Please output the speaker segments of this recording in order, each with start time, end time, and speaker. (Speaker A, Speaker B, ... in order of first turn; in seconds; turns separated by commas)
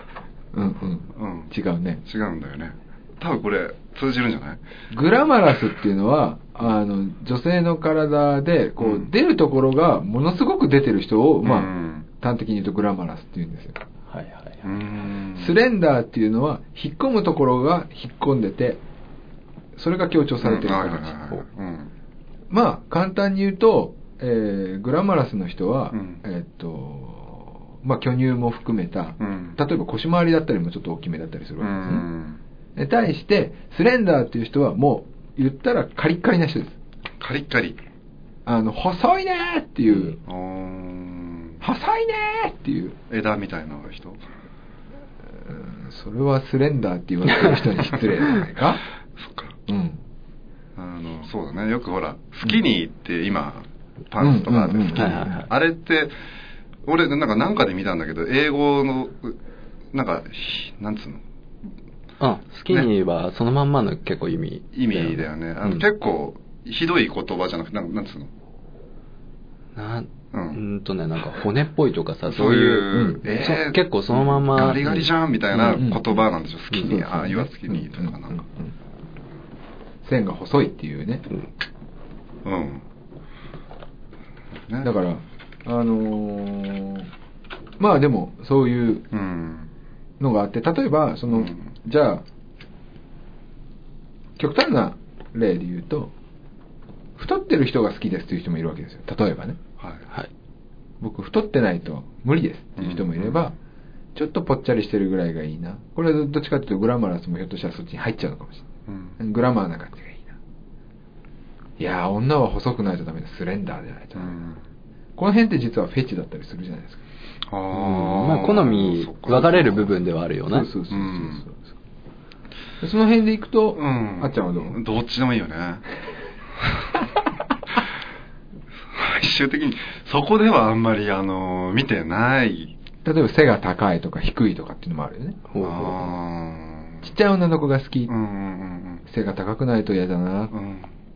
Speaker A: 0.5-2.0, Speaker B: 1.1-1.5, Speaker B: 2.0-4.6, Speaker A: 4.9-13.8, Speaker B: 8.8-9.1, Speaker B: 11.4-12.1, Speaker C: 14.1-14.7, Speaker B: 14.6-15.5, Speaker A: 15.4-18.8, Speaker A: 19.7-21.1, Speaker B: 20.4-21.9, Speaker A: 22.5-32.0, Speaker B: 25.9-26.2, Speaker B: 29.2-29.6, Speaker B: 31.6-32.4, Speaker A: 32.8-36.8, Speaker B: 37.2-37.8, Speaker A: 38.5-40.2, Speaker B: 40.2-41.6, Speaker A: 41.6-43.0, Speaker B: 43.1-44.2, Speaker A: 45.4-48.8, Speaker B: 49.2-49.5, Speaker A: 49.7-50.0, Speaker B: 50.8-56.1, Speaker A: 54.2-55.3, Speaker C: 54.9-55.5, Speaker B: 56.8-59.4, Speaker B: 59.9-61.2, Speaker C: 62.2-65.8, Speaker B: 64.7-68.3, Speaker C: 69.8-75.8, Speaker B: 70.3-70.6, Speaker B: 72.3-78.4, Speaker A: 72.9-73.2, Speaker A: 75.7-76.1, Speaker A: 76.7-78.7, Speaker A: 80.0-81.3, Speaker B: 82.4-82.8, Speaker A: 84.8-87.1, Speaker A: 87.8-89.0, Speaker B: 89.1-89.7, Speaker A: 90.2-92.2, Speaker B: 91.3-91.6, Speaker A: 94.4-96.1, Speaker A: 97.2-99.6, Speaker B: 99.8-100.0, Speaker A: 101.0-103.5, Speaker B: 102.8-103.5, Speaker A: 104.1-108.7, Speaker B: 108.9-109.2, Speaker A: 109.2-110.3, Speaker A: 111.8-114.3, Speaker B: 114.2-114.6, Speaker A: 115.2-117.0, Speaker B: 117.5-120.0, Speaker C: 117.7-120.7, Speaker A: 120.5-121.7, Speaker B: 120.9-121.4, Speaker A: 122.8-124.8, Speaker B: 123.7-125.9, Speaker B: 126.6-127.0, Speaker B: 128.9-132.7, Speaker A: 133.0-135.4, Speaker C: 135.5-136.1, Speaker B: 135.6-137.1, Speaker A: 137.0-138.1, Speaker B: 138.1-139.0, Speaker A: 139.1-140.5, Speaker B: 140.5-140.9